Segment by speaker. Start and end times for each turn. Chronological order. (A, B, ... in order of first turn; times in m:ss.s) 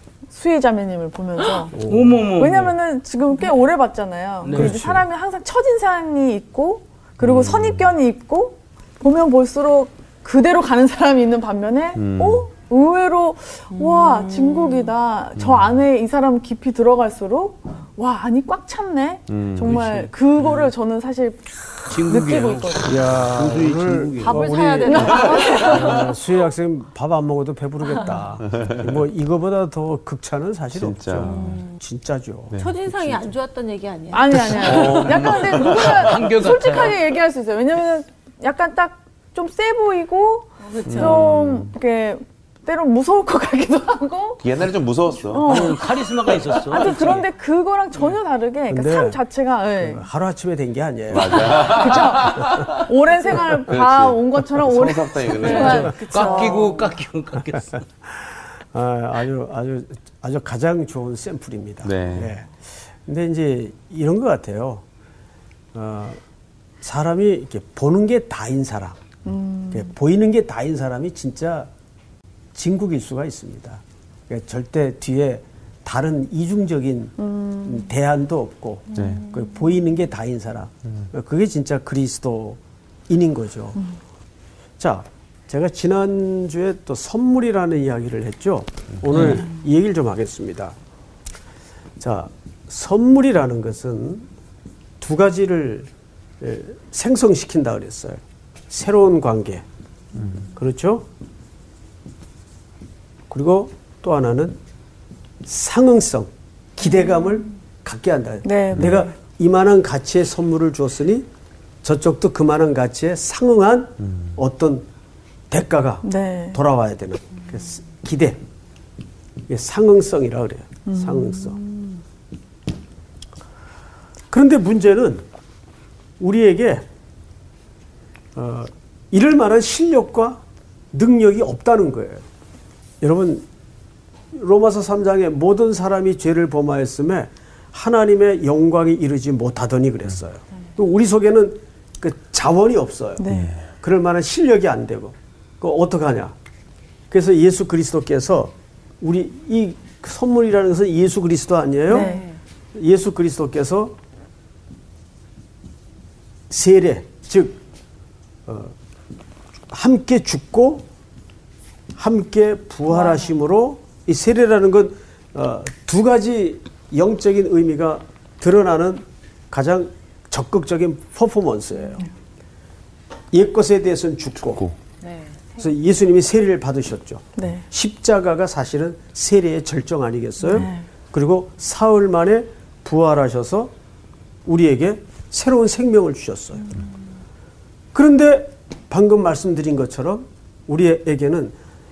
0:00.3-0:01.7 A
0:01.7-0:02.2 B
0:01.9-0:02.8 C
0:02.3-0:22.9 A
0:04.4-0:04.8 C
0:04.5-0:05.0 B
0:07.2-0:08.0 D
0:11.9-0:12.5 D
0:13.7-0:14.9 E
0:15.4-0:15.8 D
0:19.3-0:20.0 D
0:19.6-0:20.7 C
0:21.9-0:24.5 C
0:22.8-0:33.3 B
0:24.2-0:26.1 E
0:24.8-0:25.9 A
0:30.7-0:31.6 D
0:31.2-0:31.8 E
0:32.6-0:35.2 E
0:34.1-0:44.5 A
0:34.5-0:36.0 D
0:34.8-0:37.0 C
0:40.6-0:41.3 E
0:40.8-0:41.7 D
0:44.4-0:45.8 D
0:45.2-0:50.0 A
0:45.4-0:47.3 C
0:48.7-0:49.2 B
0:49.8-0:52.7 B
0:51.1-0:56.0 D
0:51.2-0:56.8 A
0:55.3-0:57.0 E
0:56.0-0:57.8 C
0:58.1-1:04.8 B
1:01.8-1:02.3 D
1:05.7-1:06.2 B
1:06.8-1:09.0 B
1:09.2-1:09.9 A
1:09.7-1:11.7 B
1:12.5-1:23.8 B
1:17.2-1:17.9 A
1:18.9-1:19.7 E
1:18.9-1:19.2 D
1:24.8-1:30.8 B
1:29.1-1:29.4 C
1:32.0-1:34.3 B
1:35.0-1:35.9 B
1:36.4-1:39.6 B
1:40.6-1:41.0 B
1:43.3-1:44.6 B
1:45.4-1:51.3 B
1:48.4-1:49.0 A
1:51.8-1:54.8 B
1:55.5-1:58.4 B
1:56.0-1:56.6 A
1:59.5-2:01.6 B
2:00.9-2:01.6 A
2:04.3-2:05.2 B
2:06.2-2:06.8 B
2:08.4-2:10.4 B
2:10.9-2:12.2 B
2:13.0-2:13.4 B
2:14.3-2:23.2 B
2:23.2-2:23.5 A
2:23.2-2:23.6 D
2:23.8-2:26.3 B
2:27.1-2:32.1 B
2:31.9-2:32.2 A
2:31.9-2:32.4 E
2:32.7-2:33.9 B
2:36.5-2:37.6 B
2:38.4-2:38.7 B
2:39.7-2:40.8 B
2:42.0-2:52.0 B
2:42.9-2:43.3 E
2:53.3-2:54.6 B
2:54.4-2:54.8 D
2:55.0-2:55.7 E
2:55.6-3:03.7 B
2:57.4-2:57.6 A
3:00.4-3:00.8 A
3:04.4-3:06.7 B
3:07.9-3:11.5 B